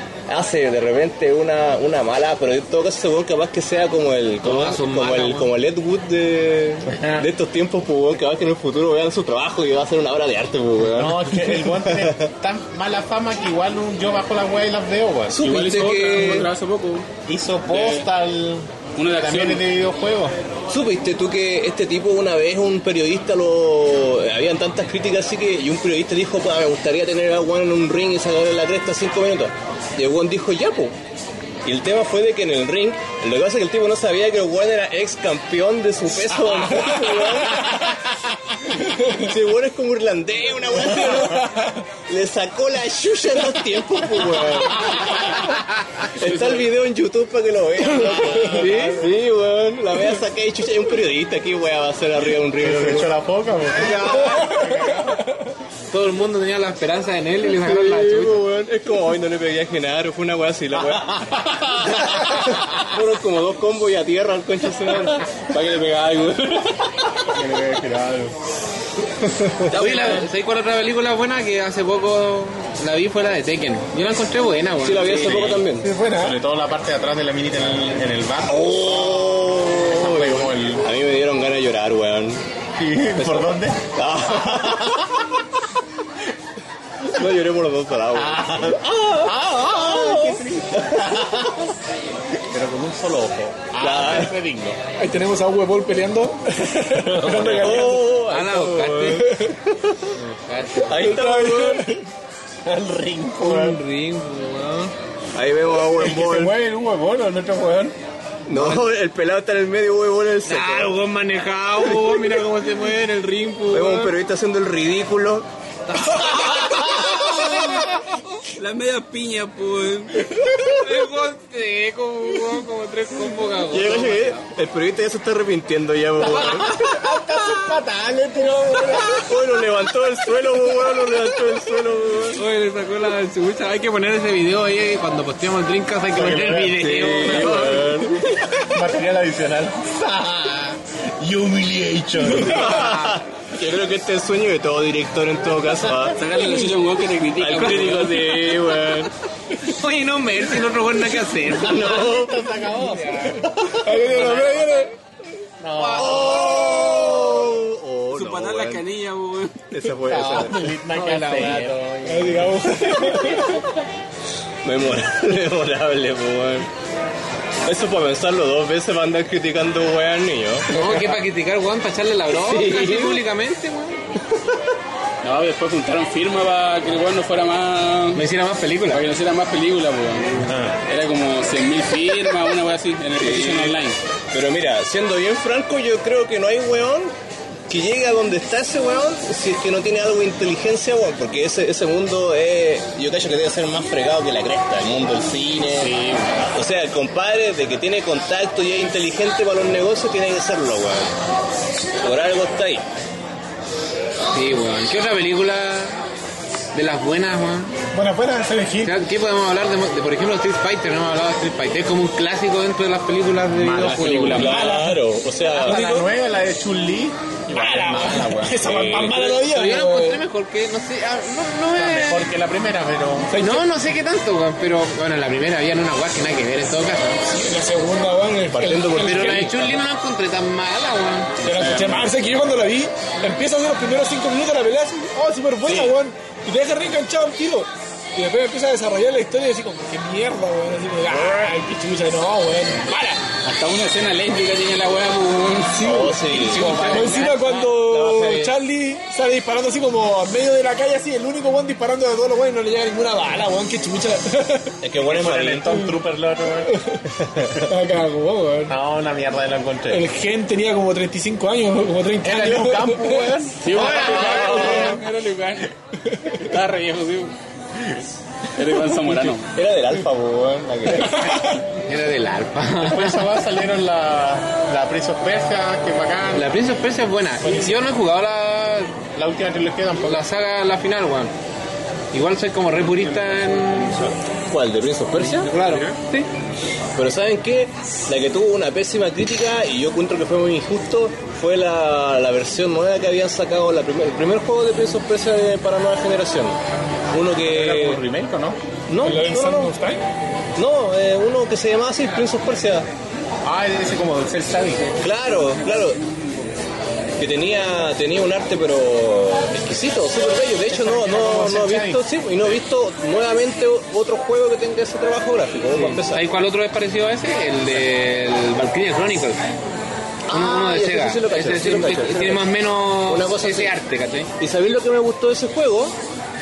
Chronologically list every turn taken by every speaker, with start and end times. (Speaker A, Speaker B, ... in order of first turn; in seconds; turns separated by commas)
Speaker A: 0.3-12.3, Speaker B: 4.4-5.5, Speaker C: 6.9-7.2, Speaker C: 10.9-15.4, Speaker A: 15.3-16.5, Speaker D: 15.4-17.1, Speaker C: 17.3-20.3, Speaker D: 17.7-18.1, Speaker D: 18.9-19.6, Speaker A: 20.7-30.9, Speaker A: 31.6-37.9, Speaker A: 39.0-45.3, Speaker A: 46.1-53.1, Speaker D: 46.2-46.6, Speaker C: 48.0-49.0, Speaker B: 48.4-49.0, Speaker C: 52.6-55.2, Speaker A: 53.7-54.7, Speaker B: 55.9-58.5, Speaker A: 57.5-66.6, Speaker D: 65.6-66.2, Speaker C: 67.2-68.3, Speaker A: 69.5-70.2, Speaker B: 69.7-75.6, Speaker A: 74.8-75.9, Speaker E: 75.8-76.4, Speaker C: 76.0-80.8, Speaker A: 78.5-82.4, Speaker C: 82.8-85.1, Speaker A: 83.2-85.0, Speaker A: 87.1-91.3, Speaker C: 88.1-91.7, Speaker C: 92.5-94.8, Speaker A: 93.8-94.3, Speaker E: 95.0-98.1, Speaker C: 97.0-97.9, Speaker A: 97.4-100.1, Speaker B: 98.1-99.3, Speaker B: 100.1-101.0, Speaker A: 100.8-101.9, Speaker E: 101.0-102.0, Speaker C: 102.6-103.8, Speaker B: 103.4-104.9, Speaker A: 105.3-106.5, Speaker C: 105.9-108.0, Speaker A: 108.5-110.9, Speaker B: 108.5-108.8, Speaker B: 110.5-114.1, Speaker A: 113.7-115.5, Speaker B: 115.9-118.0, Speaker D: 116.8-117.8, Speaker D: 118.5-120.5, Speaker B: 120.7-124.5, Speaker A: 123.7-127.0, Speaker B: 126.3-127.0, Speaker C: 126.3-129.4, Speaker A: 129.1-132.4, Speaker C: 130.7-131.2, Speaker B: 132.3-138.0, Speaker C: 136.1-137.6, Speaker A: 136.7-138.2, Speaker C: 138.5-143.0, Speaker A: 142.4-146.2, Speaker B: 142.5-143.2, Speaker D: 146.1-148.7, Speaker A: 147.4-149.1, Speaker B: 149.6-153.4, Speaker A: 151.5-152.4, Speaker C: 151.6-154.1, Speaker E: 153.8-154.9, Speaker B: 154.1-154.8, Speaker C: 155.6-156.7, Speaker B: 155.8-157.0, Speaker A: 155.9-158.8, Speaker D: 158.1-159.7, Speaker A: 159.7-160.7, Speaker C: 160.1-163.6, Speaker B: 160.1-162.1, Speaker E: 162.0-163.5, Speaker A: 163.1-163.6, Speaker A: 164.6-166.7, Speaker A: 167.6-170.7, Speaker B: 170.7-174.0, Speaker A: 172.3-173.2, Speaker D: 175.2-178.2, Speaker B: 178.1-179.0, Speaker D: 178.9-184.0, Speaker C: 180.4-180.8, Speaker A: 183.1-183.8, Speaker A: 184.3-187.1, Speaker A: 187.7-195.9, Speaker A: 196.5-201.1, Speaker A: 202.0-202.8, Speaker B: 204.3-206.0, Speaker B: 206.7-207.7, Speaker E: 207.9-208.9, Speaker B: 208.8-214.5, Speaker C: 213.6-214.6, Speaker D: 213.8-214.7, Speaker A: 214.2-215.8, Speaker E: 214.4-215.1, Speaker C: 215.5-218.7, Speaker E: 215.7-216.0, Speaker E: 217.5-220.2, Speaker A: 218.6-219.3, Speaker B: 219.3-222.3, Speaker C: 221.7-223.3, Speaker E: 223.3-223.6, Speaker B: 223.3-227.2, Speaker E: 227.2-229.6, Speaker A: 228.5-229.8, Speaker B: 228.9-231.3, Speaker E: 231.4-243.2, Speaker D: 231.4-232.1, Speaker A: 241.1-241.5, Speaker D: 243.4-245.9, Speaker E: 245.7-254.8, Speaker A: 245.8-248.5, Speaker B: 246.2-247.7, Speaker A: 254.8-255.7, Speaker C: 254.9-256.8, Speaker E: 256.7-257.0, Speaker C: 257.4-257.6, Speaker E: 257.6-258.7, Speaker C: 258.7-260.1, Speaker E: 259.9-263.3, Speaker C: 262.2-265.0, Speaker D: 263.6-265.7, Speaker B: 263.8-264.5, Speaker A: 264.1-264.5, Speaker E: 266.1-266.4, Speaker D: 266.3-267.3, Speaker D: 268.6-269.5, Speaker A: 269.0-271.4, Speaker E: 271.1-271.6, Speaker B: 271.8-273.3, Speaker C: 272.8-276.5, Speaker B: 276.3-278.9, Speaker E: 277.4-277.7, Speaker C: 279.1-280.2, Speaker B: 280.0-281.3, Speaker B: 282.1-284.1, Speaker A: 284.5-285.5, Speaker B: 285.2-286.3, Speaker A: 286.9-296.6, Speaker A: 297.1-298.0, Speaker C: 297.4-298.6, Speaker A: 298.9-299.7, Speaker E: 299.0-300.0, Speaker A: 300.6-302.9, Speaker C: 303.4-304.9, Speaker A: 305.0-306.0, Speaker A: 307.2-316.2, Speaker C: 310.7-312.0, Speaker B: 315.7-319.4, Speaker A: 320.3-322.5, Speaker B: 320.3-324.3, Speaker A: 323.1-323.7, Speaker A: 324.4-325.9